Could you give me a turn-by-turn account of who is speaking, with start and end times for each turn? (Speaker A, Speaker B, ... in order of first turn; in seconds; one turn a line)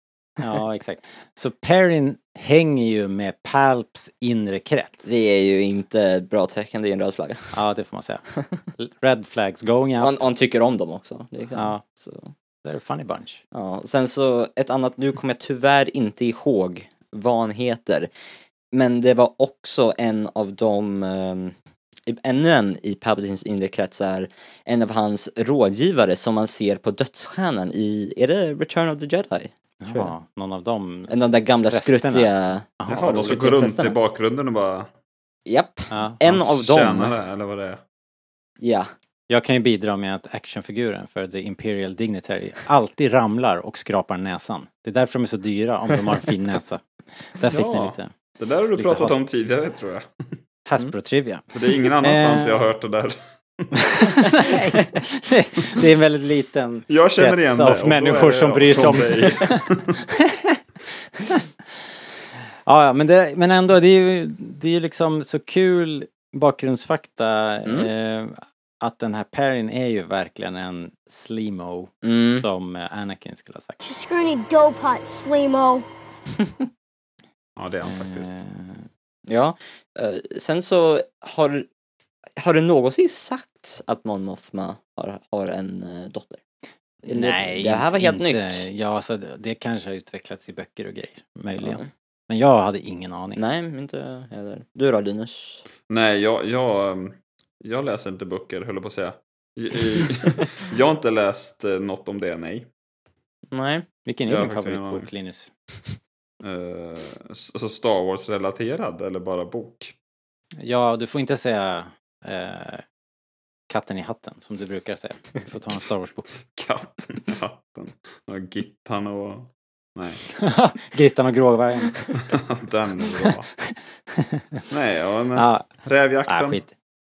Speaker A: 0.4-5.2
Speaker B: 5.0-7.5
Speaker A: 7.5-8.2
Speaker A: 8.8-10.2
Speaker B: 10.0-12.3
Speaker A: 11.6-11.8
Speaker A: 12.6-13.4
Speaker B: 13.5-18.1
Speaker B: 18.7-21.6
Speaker B: 22.1-30.1
Speaker A: 29.8-33.4
Speaker B: 31.1-34.0
Speaker C: 32.9-34.9
Speaker B: 35.5-37.1
Speaker A: 35.9-36.2
Speaker C: 36.3-37.8
Speaker B: 38.6-38.9
Speaker A: 39.3-46.8
Speaker A: 47.4-48.1
Speaker C: 47.5-50.1
Speaker A: 48.8-49.2
Speaker A: 50.7-51.5
Speaker C: 51.5-54.3
Speaker A: 52.0-52.7
Speaker A: 54.0-59.6
Speaker C: 56.9-60.0
Speaker A: 62.7-73.8
Speaker B: 67.7-67.9
Speaker B: 72.0-72.5
Speaker D: 73.8-75.8
Speaker C: 77.6-78.4
Speaker A: 77.8-78.8
Speaker B: 79.3-81.7
Speaker B: 82.4-86.4
Speaker B: 87.1-88.7
Speaker A: 87.1-93.4
Speaker B: 91.6-91.9
Speaker B: 93.4-95.7
Speaker C: 95.9-102.7
Speaker B: 103.5-103.9
Speaker A: 104.1-105.5
Speaker C: 104.3-105.1
Speaker C: 106.4-109.9
Speaker A: 110.6-112.8
Speaker A: 113.7-116.3
Speaker C: 116.5-120.2
Speaker A: 120.4-122.1
Speaker C: 122.3-123.5
Speaker A: 123.7-124.6
Speaker C: 124.7-126.6
Speaker A: 125.4-125.7
Speaker A: 126.3-126.7